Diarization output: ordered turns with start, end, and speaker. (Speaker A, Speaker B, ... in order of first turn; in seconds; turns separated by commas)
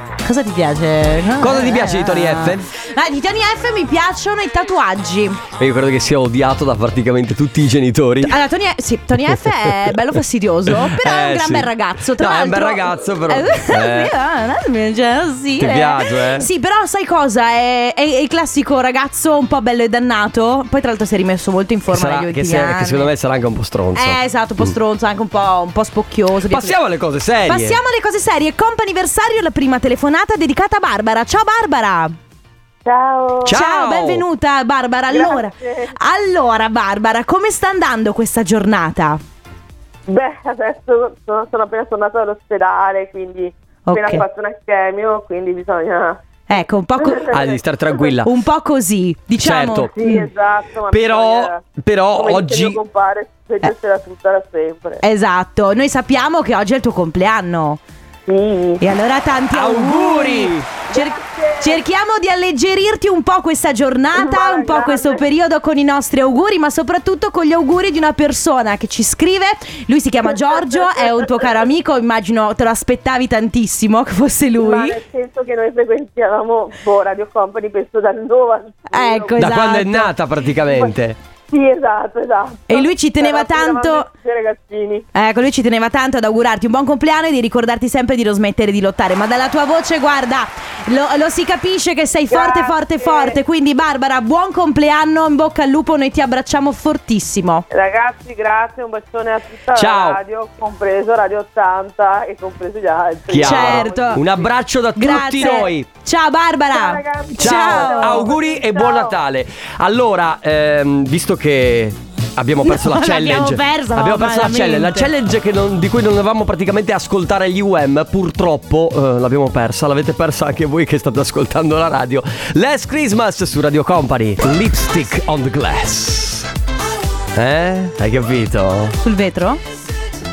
Speaker A: 0.2-5.4, Speaker B: 1.4-2.7, Speaker B: 5.6-8.4, Speaker A: 8.2-23.1, Speaker B: 9.2-9.9, Speaker B: 10.7-14.1, Speaker B: 15.6-16.5, Speaker B: 21.9-24.7, Speaker A: 23.9-26.8, Speaker B: 26.5-27.8, Speaker A: 27.4-32.1, Speaker C: 32.8-33.6, Speaker B: 33.4-34.2, Speaker A: 33.5-39.2, Speaker C: 35.1-35.9, Speaker C: 40.1-46.2, Speaker A: 43.9-44.2, Speaker A: 46.5-47.3, Speaker C: 47.0-48.1, Speaker B: 47.3-48.3, Speaker A: 48.2-50.3, Speaker B: 49.4-49.9, Speaker C: 49.9-51.6, Speaker B: 50.9-52.8, Speaker C: 52.1-55.0, Speaker A: 55.0-57.8, Speaker C: 58.3-58.8, Speaker A: 58.8-75.0, Speaker B: 59.5-60.7, Speaker C: 60.9-61.8, Speaker C: 64.2-65.2, Speaker C: 70.3-71.5, Speaker C: 74.6-79.4, Speaker A: 78.9-80.1, Speaker B: 79.4-81.2, Speaker C: 80.7-80.9, Speaker C: 81.5-85.1, Speaker A: 82.7-84.1, Speaker A: 85.1-97.7, Speaker C: 92.3-93.4, Speaker C: 97.7-104.4, Speaker B: 99.7-100.2, Speaker B: 103.3-105.9, Speaker A: 103.4-104.2, Speaker A: 105.0-108.3, Speaker C: 106.7-109.2, Speaker B: 107.4-126.5, Speaker A: 112.6-115.1, Speaker B: 127.3-129.0, Speaker A: 129.0-129.6